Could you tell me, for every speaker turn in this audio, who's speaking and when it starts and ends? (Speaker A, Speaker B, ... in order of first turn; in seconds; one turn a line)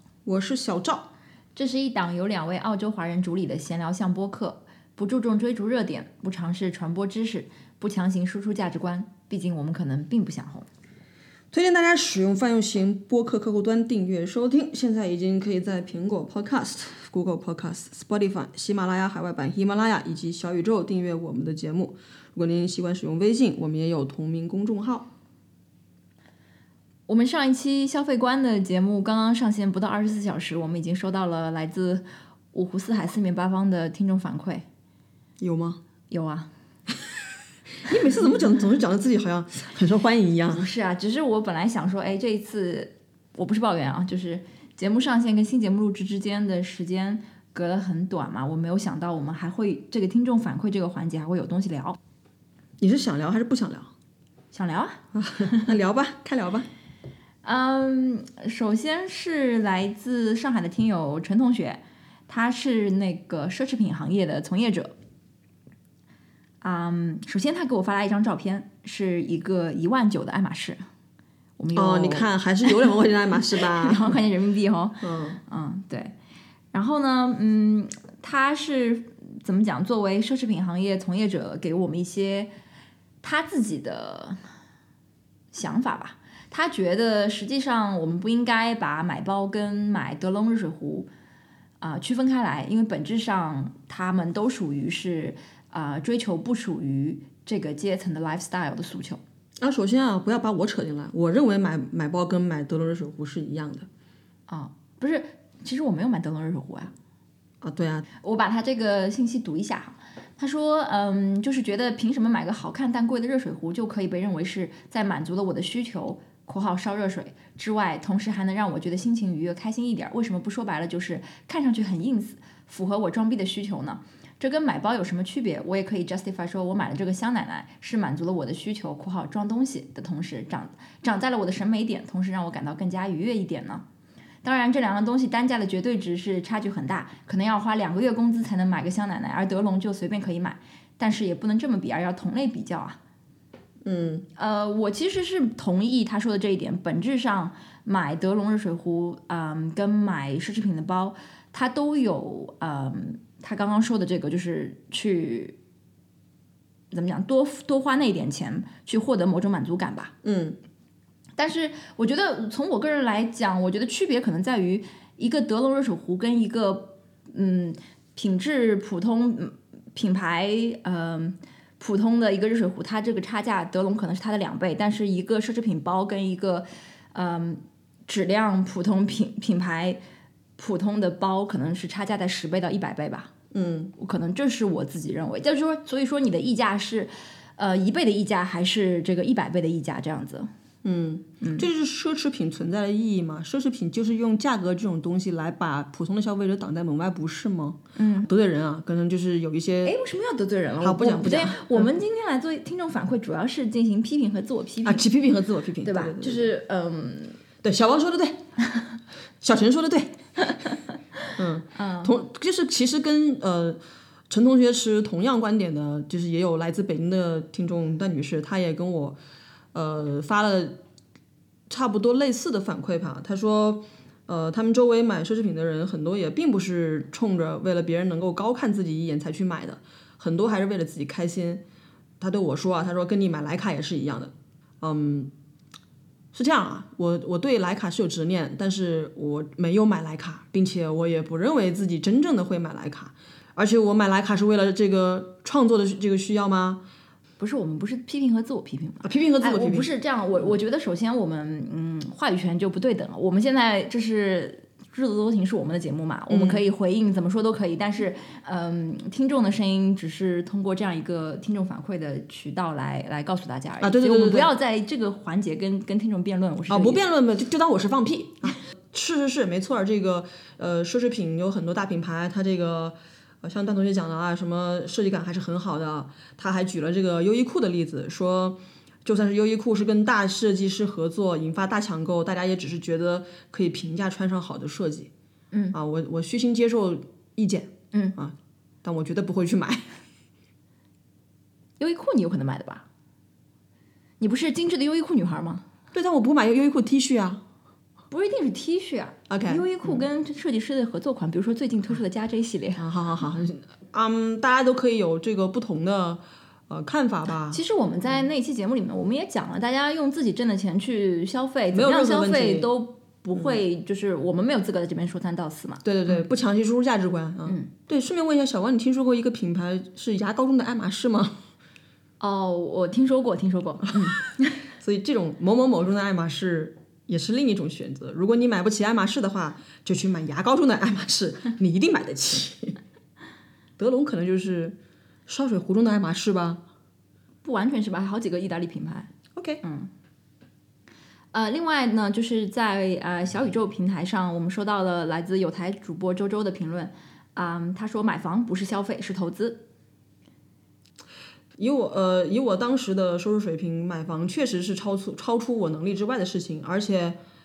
Speaker A: 0.2-1.1
Speaker B: 1.5-10.7
Speaker A: 11.5-25.1
Speaker B: 27.1-34.6
Speaker A: 35.4-35.8
Speaker B: 36.1-36.5
Speaker A: 37.8-40.6
Speaker B: 40.5-52.0
Speaker A: 52.8-53.9
Speaker B: 54.5-55.7
Speaker A: 55.1-56.7
Speaker B: 57.4-64.9
Speaker B: 66.6-70.8
Speaker B: 71.6-72.9
Speaker A: 71.7-74.2
Speaker B: 73.5-76.1
Speaker A: 75.0-75.4
Speaker B: 76.7-82.5
Speaker B: 83.2-84.4
Speaker B: 85.5-91.1
Speaker B: 91.8-99.2
Speaker A: 99.6-103.9
Speaker B: 104.5-106.9
Speaker A: 107.6-108.0
Speaker B: 108.2-133.8
Speaker B: 134.4-143.0
Speaker A: 143.8-144.2
Speaker B: 144.4-155.6
Speaker B: 156.9-160.1
Speaker A: 160.2-160.6
Speaker B: 161.4-180.0
Speaker B: 180.6-183.3
Speaker A: 183.5-183.9
Speaker B: 183.9-190.5
Speaker A: 190.8-199.9
Speaker B: 191.4-191.7
Speaker B: 197.9-198.3
Speaker B: 199.8-205.1
Speaker A: 200.8-201.9
Speaker A: 204.8-206.5
Speaker B: 205.8-207.4
Speaker A: 207.6-208.4
Speaker A: 209.4-210.2
Speaker B: 210.4-212.1
Speaker A: 211.4-213.8
Speaker A: 214.3-219.2
Speaker A: 219.7-220.8
Speaker A: 221.7-231.6
Speaker A: 232.2-235.3
Speaker A: 236.3-246.8
Speaker B: 247.4-267.0
Speaker A: 249.0-249.9
Speaker A: 256.3-256.6
Speaker A: 263.8-264.5
Speaker A: 266.7-285.1
Speaker A: 285.7-289.9
Speaker B: 291.8-292.9
Speaker B: 294.2-295.6
Speaker A: 295.9-297.4
Speaker B: 298.1-302.8
Speaker A: 299.3-300.1
Speaker A: 302.8-307.6
Speaker B: 307.5-316.2
Speaker A: 311.7-312.7
Speaker A: 315.8-321.4
Speaker B: 322.2-324.5
Speaker A: 324.8-332.8
Speaker A: 333.8-336.6
Speaker B: 337.4-339.1
Speaker A: 339.3-339.6
Speaker B: 339.6-339.9
Speaker B: 341.3-349.6
Speaker A: 351.6-357.2